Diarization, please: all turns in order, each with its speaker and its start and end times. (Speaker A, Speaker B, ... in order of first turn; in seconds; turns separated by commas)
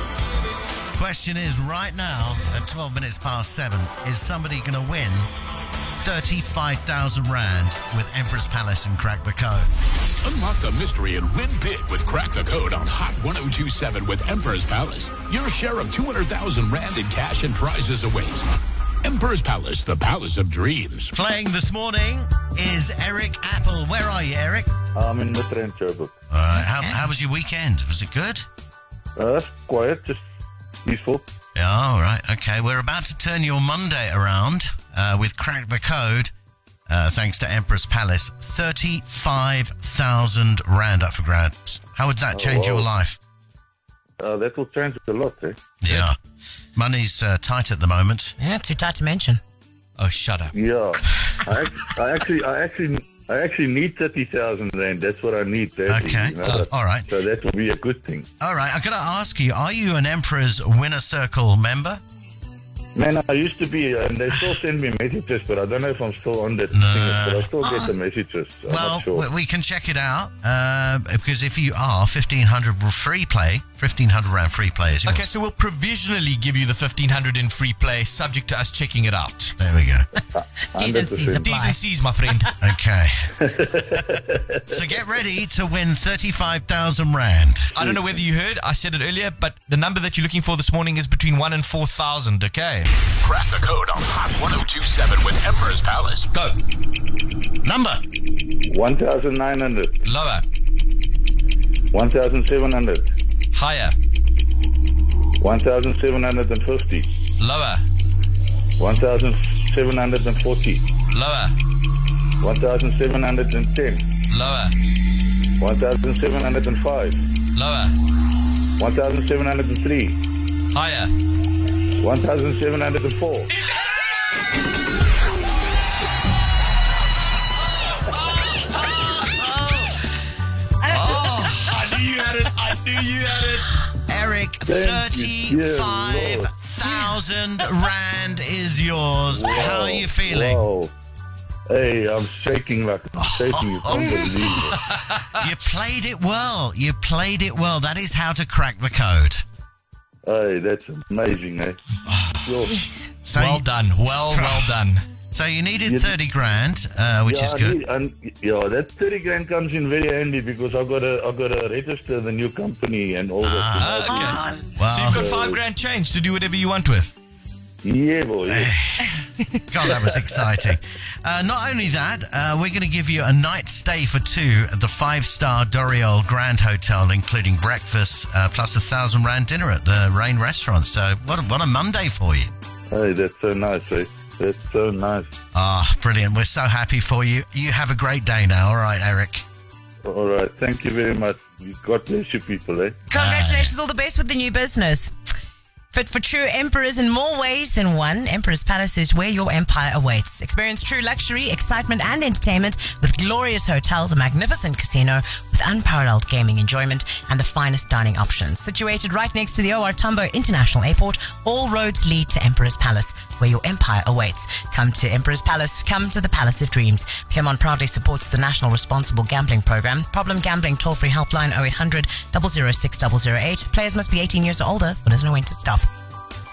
Speaker A: 0.9-5.3, Speaker A: 6.0-9.7, Speaker B: 10.2-18.5, Speaker B: 19.0-21.1, Speaker A: 21.1-24.7, Speaker C: 24.9-26.1, Speaker A: 26.3-28.4, Speaker D: 26.5-27.0, Speaker C: 29.2-30.2, Speaker C: 30.8-31.3, Speaker A: 31.6-36.3, Speaker A: 36.9-43.2, Speaker C: 42.3-42.9, Speaker C: 44.2-45.6, Speaker A: 45.8-46.2, Speaker A: 46.8-48.4, Speaker D: 48.4-49.4, Speaker E: 50.0-50.5, Speaker C: 50.5-58.3, Speaker A: 55.9-57.1, Speaker A: 58.4-62.0, Speaker C: 63.0-69.3, Speaker A: 66.7-67.5, Speaker A: 68.7-75.3, Speaker E: 75.0-79.5, Speaker A: 79.6-80.0, Speaker C: 80.4-81.6, Speaker D: 80.8-81.8, Speaker E: 81.4-82.5, Speaker A: 82.6-83.3, Speaker C: 83.4-84.6, Speaker A: 84.7-87.7, Speaker E: 87.8-92.9, Speaker C: 87.8-88.2, Speaker B: 93.2-96.3, Speaker E: 96.3-96.6, Speaker A: 97.6-98.0, Speaker C: 98.7-100.0, Speaker E: 100.0-100.4, Speaker C: 101.9-103.1, Speaker E: 103.5-104.0, Speaker C: 105.4-107.1, Speaker E: 107.4-107.8, Speaker C: 108.8-110.8, Speaker E: 111.1-111.5, Speaker C: 112.4-114.0, Speaker E: 114.3-114.8, Speaker C: 115.6-117.2, Speaker E: 117.5-118.0, Speaker C: 118.8-120.2, Speaker E: 120.7-121.1, Speaker C: 122.0-123.5, Speaker A: 130.9-131.8, Speaker E: 131.7-133.8, Speaker A: 134.1-140.6, Speaker C: 134.7-136.5, Speaker C: 139.3-140.9, Speaker C: 141.7-144.8, Speaker A: 143.2-144.5, Speaker A: 145.3-149.4, Speaker C: 150.2-151.8, Speaker A: 152.1-152.4, Speaker C: 152.4-152.8, Speaker D: 152.6-153.1, Speaker A: 153.2-154.7, Speaker E: 153.3-155.1, Speaker A: 155.3-157.8, Speaker C: 155.8-156.2, Speaker C: 157.3-164.4, Speaker A: 163.4-164.1, Speaker E: 163.8-167.1, Speaker D: 164.1-164.7, Speaker A: 164.8-165.3, Speaker C: 165.1-165.6, Speaker C: 167.8-168.7, Speaker A: 168.5-182.5, Speaker C: 182.9-185.3, Speaker A: 185.5-189.4, Speaker C: 190.1-193.0, Speaker D: 193.1-195.1, Speaker A: 193.1-193.8, Speaker D: 195.9-225.9